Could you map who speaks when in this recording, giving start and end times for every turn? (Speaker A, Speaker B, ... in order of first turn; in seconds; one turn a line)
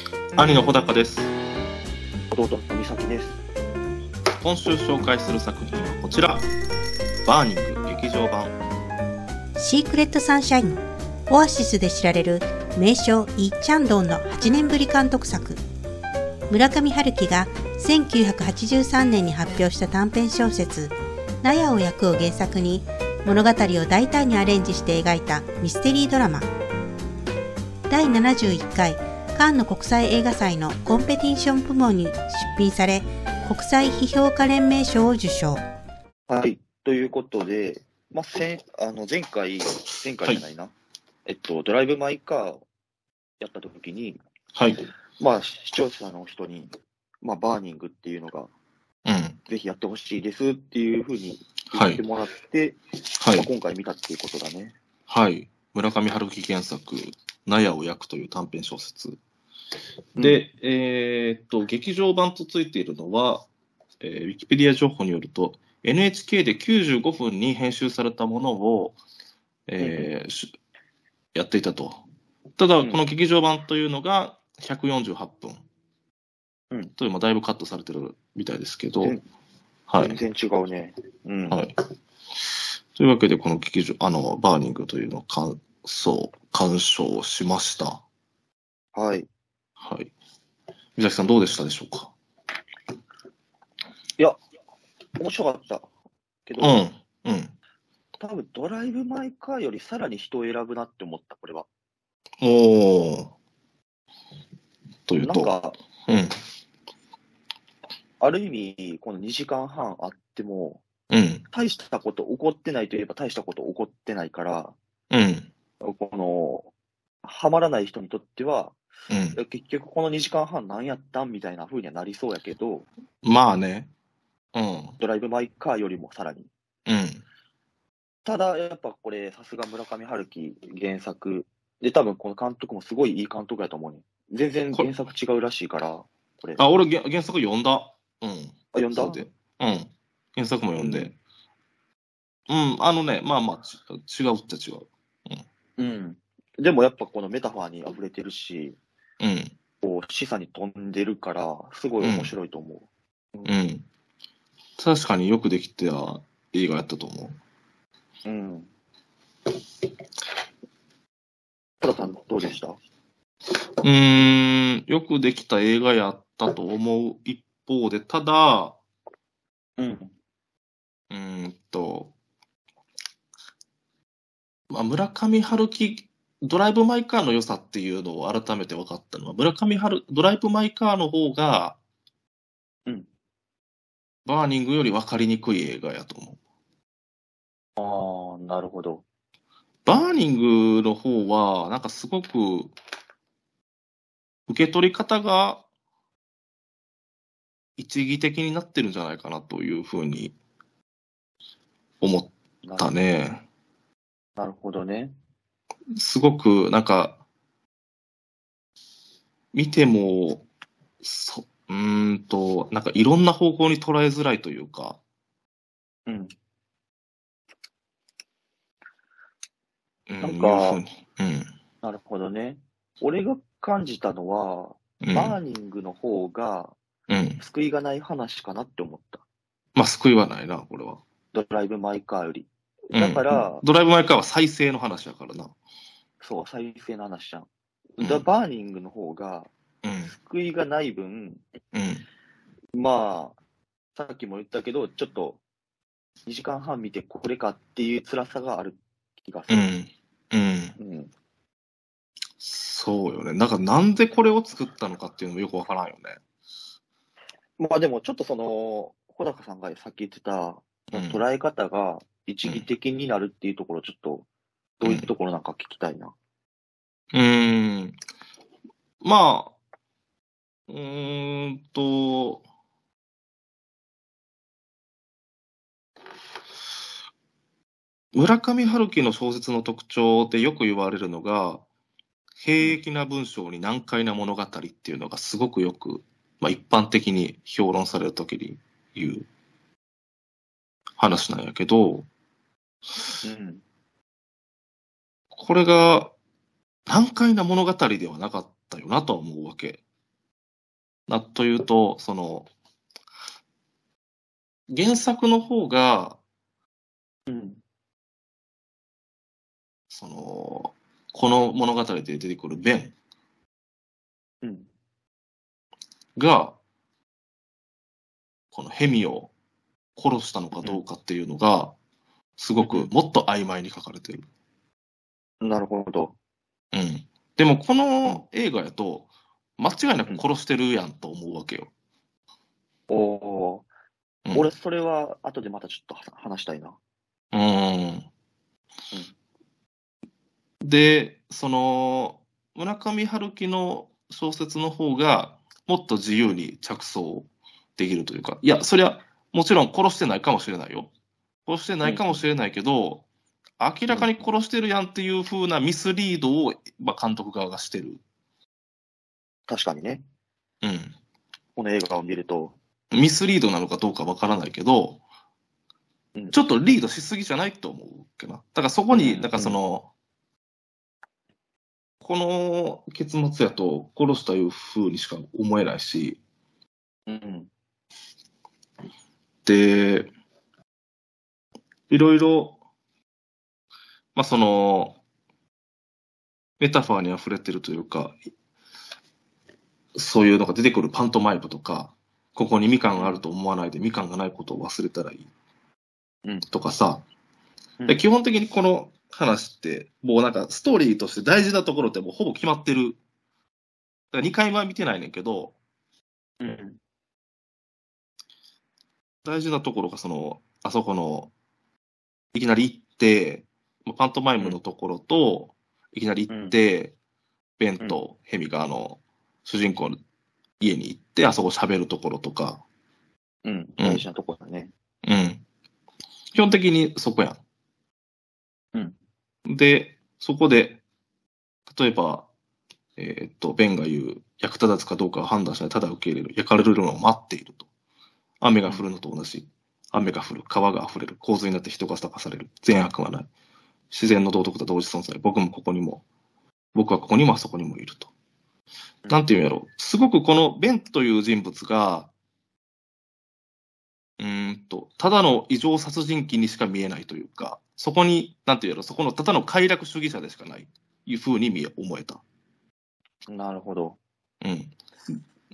Speaker A: 0.4-0.6
Speaker B: 0.4-1.3
Speaker A: 2.3-3.4
Speaker B: 4.4-6.5
Speaker B: 7.2-8.6
Speaker C: 9.6-15.6
Speaker C: 16.5-26.5
Speaker C: 27.9-35.6
Speaker A: 36.3-40.7
Speaker A: 41.3-42.6
Speaker A: 43.4-44.2
Speaker B: 44.5-44.9
Speaker A: 45.2-48.5
Speaker B: 49.1-49.4
Speaker A: 49.5-52.8
Speaker B: 51.7-52.0
Speaker B: 53.2-53.5
Speaker A: 53.3-54.8
Speaker B: 55.1-59.2
Speaker A: 60.2-60.4
Speaker B: 60.2-63.5
Speaker B: 64.0-69.0
Speaker B: 69.7-70.5
Speaker A: 69.8-70.1
Speaker B: 71.3-72.0
Speaker B: 72.6-75.7
Speaker B: 77.0-79.2
Speaker B: 79.9-80.2
Speaker A: 80.0-81.6
Speaker B: 81.5-81.8
Speaker B: 83.0-88.0
Speaker A: 89.0-89.3
Speaker B: 89.8-90.1
Speaker B: 91.0-92.1
Speaker A: 95.2-95.9
Speaker A: 96.5-96.8
Speaker B: 96.6-97.5
Speaker A: 98.2-101.7
Speaker B: 102.4-103.3
Speaker B: 105.1-105.5
Speaker A: 105.2-105.8
Speaker B: 106.1-106.4
Speaker A: 108.2-110.8
Speaker B: 111.1-111.4
Speaker A: 111.5-114.8
Speaker B: 115.1-115.5
Speaker A: 115.8-116.7
Speaker A: 117.2-118.8
Speaker B: 119.1-119.4
Speaker A: 119.3-122.9
Speaker B: 123.2-123.9
Speaker B: 124.5-125.0
Speaker A: 125.0-126.5
Speaker B: 126.9-127.2
Speaker A: 128.2-136.6
Speaker B: 136.6-141.2
Speaker A: 138.7-139.2
Speaker A: 140.8-141.1
Speaker B: 142.5-145.4
Speaker A: 145.8-148.8
Speaker B: 149.2-149.6
Speaker A: 149.8-153.6
Speaker B: 152.0-152.3
Speaker B: 153.4-153.9
Speaker B: 154.8-157.4
Speaker A: 158.2-158.7
Speaker A: 161.8-162.8
Speaker B: 163.8-168.8
Speaker A: 169.8-170.1
Speaker B: 171.1-172.1
Speaker B: 174.7-181.8
Speaker B: 184.3-186.4
Speaker A: 187.8-189.0
Speaker B: 189.8-192.8
Speaker B: 194.5-195.7
Speaker B: 197.8-200.3
Speaker B: 202.0-203.4
Speaker A: 202.6-202.9
Speaker A: 204.4-205.1
Speaker B: 205.9-207.2
Speaker B: 209.5-210.5
Speaker B: 211.0-215.0
Speaker A: 216.1-216.3
Speaker B: 220.1-221.5
Speaker A: 220.2-220.8
Speaker A: 221.8-226.8
Speaker B: 225.0-225.4
Speaker B: 227.1-227.4
Speaker A: 227.4-229.2
Speaker B: 229.8-231.0
Speaker A: 231.3-233.6
Speaker B: 232.9-235.5
Speaker A: 236.2-239.5
Speaker B: 238.0-238.3
Speaker B: 239.8-240.1
Speaker A: 240.0-241.4
Speaker B: 241.7-242.1
Speaker A: 242.7-243.4
Speaker A: 243.9-245.4
Speaker A: 246.3-249.7
Speaker B: 249.5-250.8
Speaker A: 250.8-251.1
Speaker B: 252.4-256.2
Speaker A: 257.6-264.3
Speaker B: 260.9-261.2
Speaker A: 264.8-266.1
Speaker B: 264.8-265.1
Speaker B: 267.1-268.0
Speaker B: 269.0-269.6
Speaker B: 270.7-272.4
Speaker B: 278.1-281.6
Speaker B: 282.4-289.3
Speaker B: 291.0-292.1
Speaker A: 293.2-293.6
Speaker B: 295.3-296.1
Speaker B: 296.9-299.8
Speaker B: 301.1-302.5
Speaker B: 304.7-306.2
Speaker A: 307.3-307.6
Speaker B: 309.9-312.9
Speaker A: 314.4-314.7
Speaker B: 316.2-316.6
Speaker B: 318.5-319.3
Speaker B: 320.0-321.8
Speaker B: 322.4-324.3
Speaker A: 322.6-322.9
Speaker A: 325.4-326.2
Speaker B: 326.7-331.7
Speaker A: 332.9-333.7
Speaker A: 334.3-336.8
Speaker B: 337.3-338.1
Speaker B: 340.6-350.9
Speaker B: 351.5-353.1
Speaker A: 351.8-352.2
Speaker B: 353.6-358.0
Speaker A: 353.9-354.2
Speaker A: 359.5-360.0
Speaker B: 360.6-361.0
Speaker A: 361.6-362.6
Speaker B: 362.9-365.0
Speaker B: 366.3-369.9
Speaker A: 368.9-369.6
Speaker B: 372.0-376.2
Speaker A: 377.1-377.5
Speaker B: 379.4-380.1
Speaker B: 381.9-382.6
Speaker B: 384.1-385.0
Speaker B: 386.6-388.2
Speaker B: 389.9-395.3
Speaker B: 396.5-397.0
Speaker A: 397.8-398.1
Speaker B: 397.9-403.0
Speaker B: 404.1-405.6
Speaker A: 406.4-406.8
Speaker B: 409.2-411.3
Speaker B: 412.3-417.0
Speaker A: 416.3-416.6
Speaker B: 417.6-420.0
Speaker B: 420.6-422.6
Speaker A: 423.4-424.7
Speaker B: 423.8-424.0
Speaker B: 425.0-425.4
Speaker B: 426.3-427.4
Speaker B: 429.5-430.8
Speaker B: 431.7-432.3
Speaker B: 433.0-437.7
Speaker B: 438.4-443.3
Speaker B: 443.9-446.0
Speaker B: 446.7-448.1
Speaker B: 449.1-452.1
Speaker B: 454.2-462.2
Speaker A: 463.3-464.0
Speaker B: 464.4-465.2